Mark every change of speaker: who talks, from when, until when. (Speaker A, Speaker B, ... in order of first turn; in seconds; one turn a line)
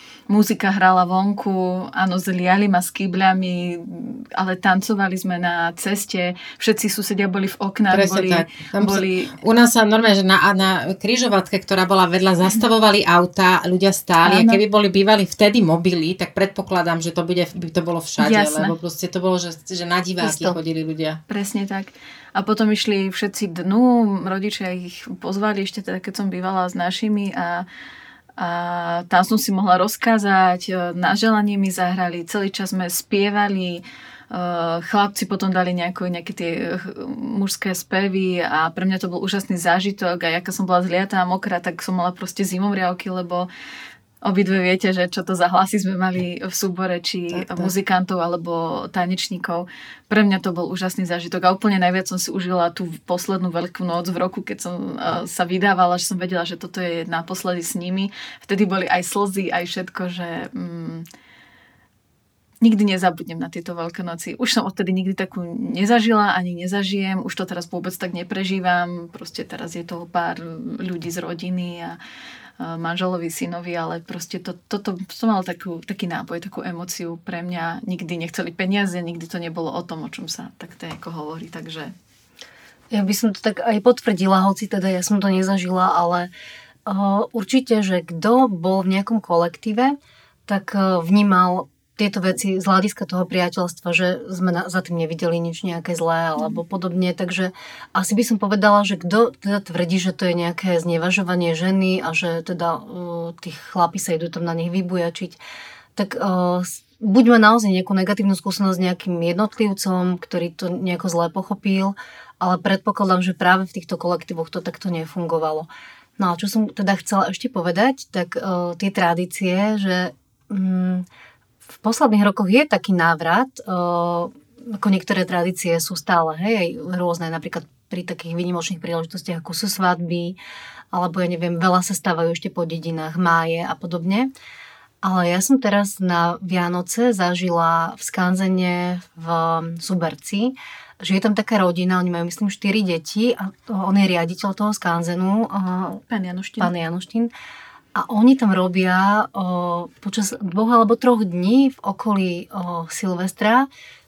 Speaker A: 0.3-9.4
Speaker B: 7.9-21.2
Speaker A: 14.2-14.6
Speaker A: 18.2-18.7
Speaker A: 20.2-20.5
Speaker A: 21.3-27.7
Speaker A: 28.4-43.5
Speaker A: 44.2-61.0
Speaker B: 47.3-47.7
Speaker A: 62.6-72.0
Speaker A: 72.6-81.9
Speaker C: 82.9-86.3
Speaker C: 86.8-90.0
Speaker C: 90.5-105.4
Speaker C: 106.0-121.0
Speaker C: 121.7-130.4
Speaker C: 130.9-134.3
Speaker C: 135.0-146.0
Speaker A: 146.1-146.7
Speaker C: 146.6-147.3
Speaker C: 147.9-153.7